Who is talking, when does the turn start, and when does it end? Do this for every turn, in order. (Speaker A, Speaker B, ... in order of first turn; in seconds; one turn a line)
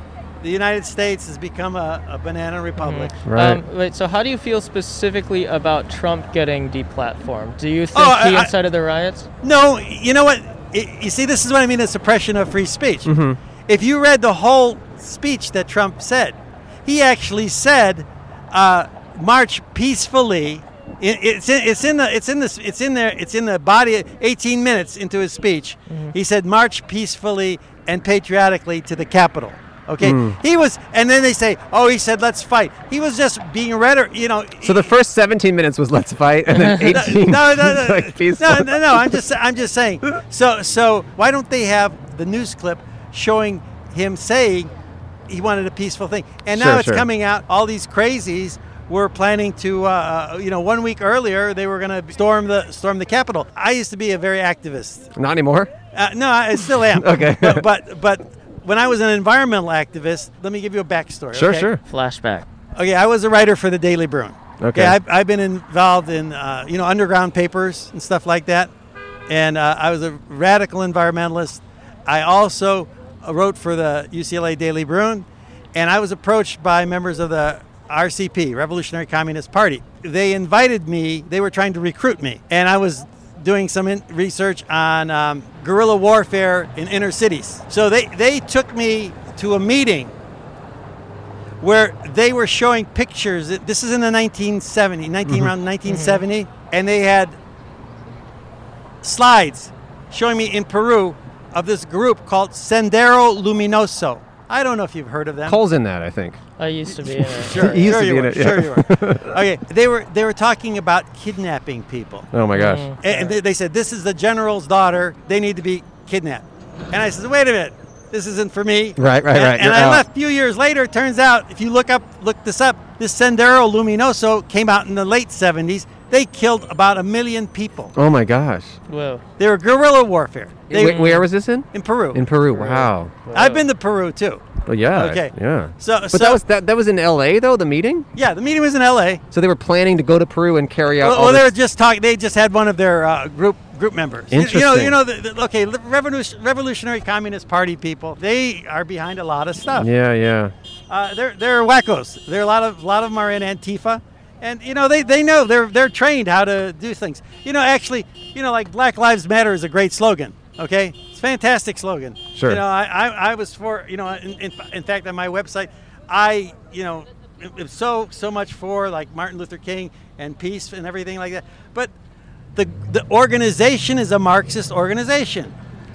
Speaker A: 0.4-3.2
Speaker B: 2.8-9.3
Speaker C: 3.2-3.6
Speaker A: 7.9-8.5
Speaker A: 9.4-13.1
Speaker C: 13.0-13.4
Speaker A: 13.7-34.9
Speaker B: 25.9-26.1
Speaker C: 30.0-30.4
Speaker C: 34.6-39.2
Speaker A: 36.9-44.7
Speaker A: 45.3-55.1
Speaker C: 46.5-47.1
Speaker C: 55.1-55.7
Speaker A: 55.9-61.6
Speaker C: 56.7-57.7
Speaker C: 61.3-61.8
Speaker B: 61.4-62.5
Speaker A: 62.7-68.7
Speaker C: 64.6-65.0
Speaker A: 69.3-90.1
Speaker A: 91.6-97.4
Speaker C: 95.2-95.5
Speaker B: 95.8-96.2
Speaker A: 99.0-105.6
Speaker C: 105.5-106.4
Speaker B: 106.6-108.0
Speaker A: 107.1-112.3
Speaker C: 107.4-109.4
Speaker C: 112.3-112.9
Speaker B: 112.5-113.3
Speaker A: 113.0-127.9
Speaker C: 119.0-120.0
Speaker C: 127.9-128.8
Speaker B: 128.9-129.2
Speaker A: 129.4-131.1
Speaker C: 130.7-133.2
Speaker B: 130.7-131.2
Speaker A: 131.7-132.2
Speaker B: 132.5-133.6
Speaker A: 133.3-136.4
Speaker C: 134.7-138.1
Speaker A: 138.2-139.2
Speaker C: 139.3-141.5
Speaker A: 140.9-149.9
Speaker C: 144.3-144.9
Speaker C: 149.7-150.5
Speaker A: 150.9-171.9
Speaker C: 162.3-162.6
Speaker A: 172.5-175.5